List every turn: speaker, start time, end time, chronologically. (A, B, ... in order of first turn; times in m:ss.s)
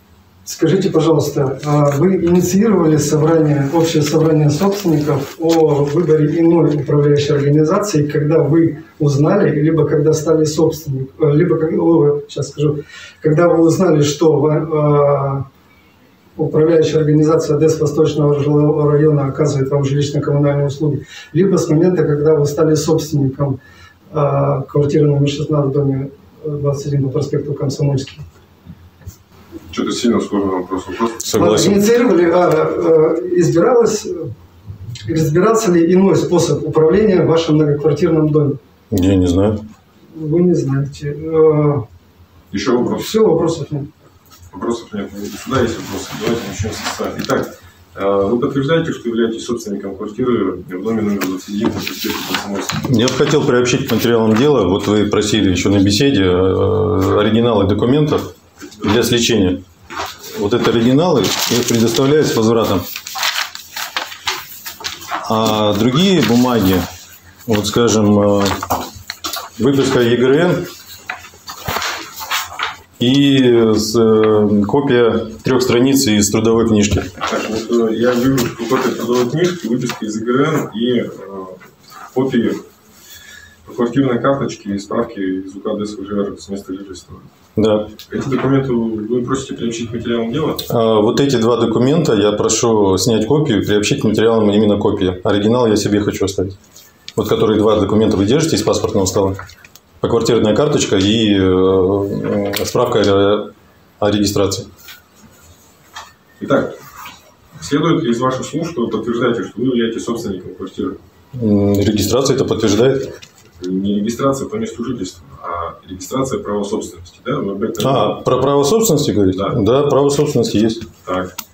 0:00.4-0:15.5 A
0:16.4-0:23.6 A
0:24.1-0:28.3 A
0:29.7-0:31.3 B
0:31.2-0:31.8 C
0:31.3-0:34.3 A
0:35.1-0:38.6 A
0:38.9-0:39.6 C
0:40.1-0:41.8 A
0:42.5-0:43.1 B
0:42.9-0:43.9 A
0:44.5-0:52.9 B
0:52.9-0:58.3 C
0:58.8-0:59.6 C
1:00.4-1:02.9 C
1:05.2-1:06.9 C
1:07.5-1:08.6 C
1:09.6-1:10.7 C
1:13.0-1:17.1 C
1:17.2-1:22.6 B
1:23.6-1:27.3 B
1:27.6-1:27.9 C
1:28.1-1:30.6 B
1:30.7-1:36.6 C
1:37.2-1:39.4 C
1:40.0-1:44.7 C
1:46.4-1:46.8 B
1:47.6-1:51.0 B
1:51.3-1:53.1 C
1:53.6-1:58.2 B
1:57.8-2:00.8 C
1:59.3-1:59.6 B
2:01.0-2:01.3 B